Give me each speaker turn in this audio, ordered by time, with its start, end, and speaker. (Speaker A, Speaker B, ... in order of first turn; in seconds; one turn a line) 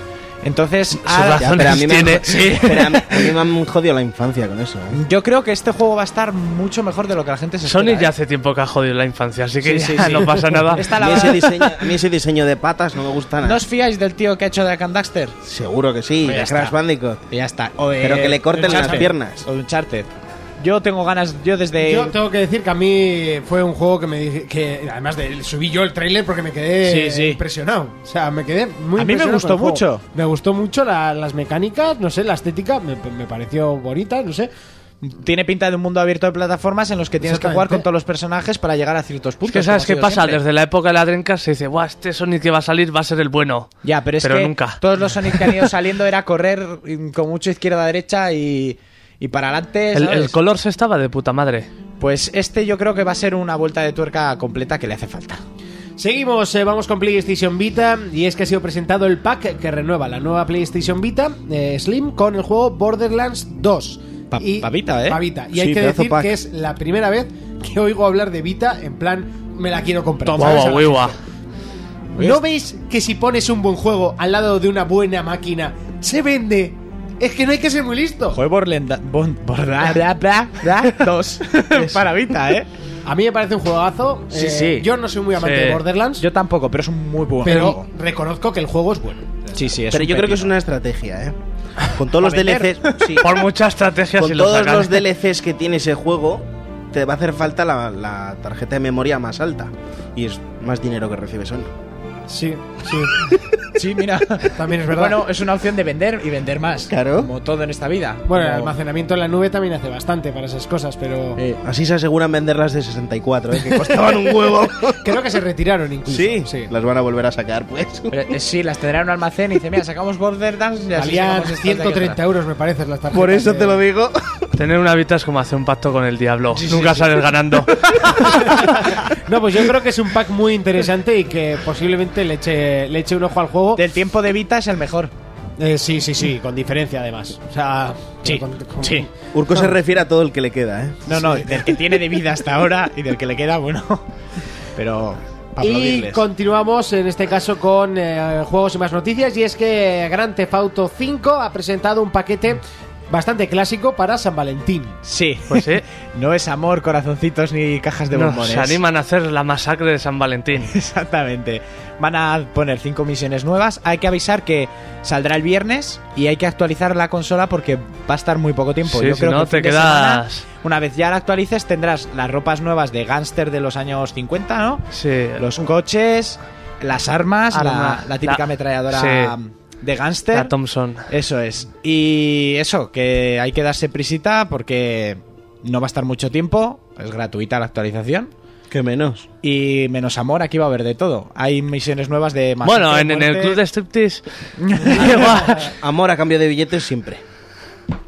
Speaker A: 0.4-3.4
Speaker B: 1.0-3.0
Speaker C: 1.4-5.0
Speaker A: 4.9-8.1
Speaker B: 7.7-11.4
Speaker A: 9.6-11.8
Speaker C: 10.8-13.6
Speaker A: 13.4-15.3
Speaker C: 15.4-17.2
Speaker A: 16.2-16.8
Speaker A: 17.3-22.1
Speaker C: 18.0-19.4
Speaker D: 18.7-19.0
Speaker D: 21.8-34.5
Speaker A: 26.8-27.4
Speaker A: 28.9-30.0
Speaker A: 35.0-40.4
Speaker D: 37.2-37.9
Speaker B: 39.5-45.6
Speaker A: 43.8-50.4
Speaker B: 49.9-51.7
Speaker A: 52.0-55.4
Speaker D: 56.0-71.2
Speaker A: 64.3-65.2
Speaker C: 65.5-66.3
Speaker B: 70.3-71.1
Speaker D: 72.2-78.4
Speaker A: 78.3-82.7
Speaker C: 81.7-82.0
Speaker D: 83.0-86.2
Speaker B: 85.4-85.8
Speaker A: 86.2-87.8
Speaker D: 87.4-89.4
Speaker A: 89.5-90.5
Speaker C: 89.9-91.3
Speaker C: 91.9-93.3
Speaker A: 92.1-93.2
Speaker B: 93.2-95.0
Speaker C: 94.2-101.7
Speaker D: 102.3-103.1
Speaker A: 103.7-108.7
Speaker D: 104.5-105.2
Speaker C: 106.9-107.3
Speaker D: 108.3-111.4
Speaker A: 111.3-111.6
Speaker C: 111.6-115.1
Speaker D: 114.5-116.7
Speaker C: 116.1-118.2
Speaker A: 118.1-122.2
Speaker D: 121.0-123.8
Speaker C: 123.1-124.5
Speaker B: 124.5-128.5
Speaker A: 126.5-128.6
Speaker D: 128.2-133.8
Speaker A: 133.8-135.1
Speaker D: 135.6-139.7
Speaker A: 138.2-139.1
Speaker C: 139.3-141.2
Speaker A: 141.1-144.1
Speaker A: 144.8-146.2
Speaker D: 145.6-155.0
Speaker A: 155.0-158.8
Speaker B: 155.5-155.8
Speaker B: 158.1-160.7
Speaker A: 160.6-180.5
Speaker B: 168.9-170.4
Speaker B: 174.9-175.4
Speaker B: 177.5-179.3
Speaker B: 180.3-181.1
Speaker A: 181.1-188.3
Speaker C: 188.7-189.3
Speaker A: 189.4-193.6
Speaker B: 192.6-194.2
Speaker A: 194.6-195.6
Speaker B: 194.8-195.6
Speaker C: 194.9-197.2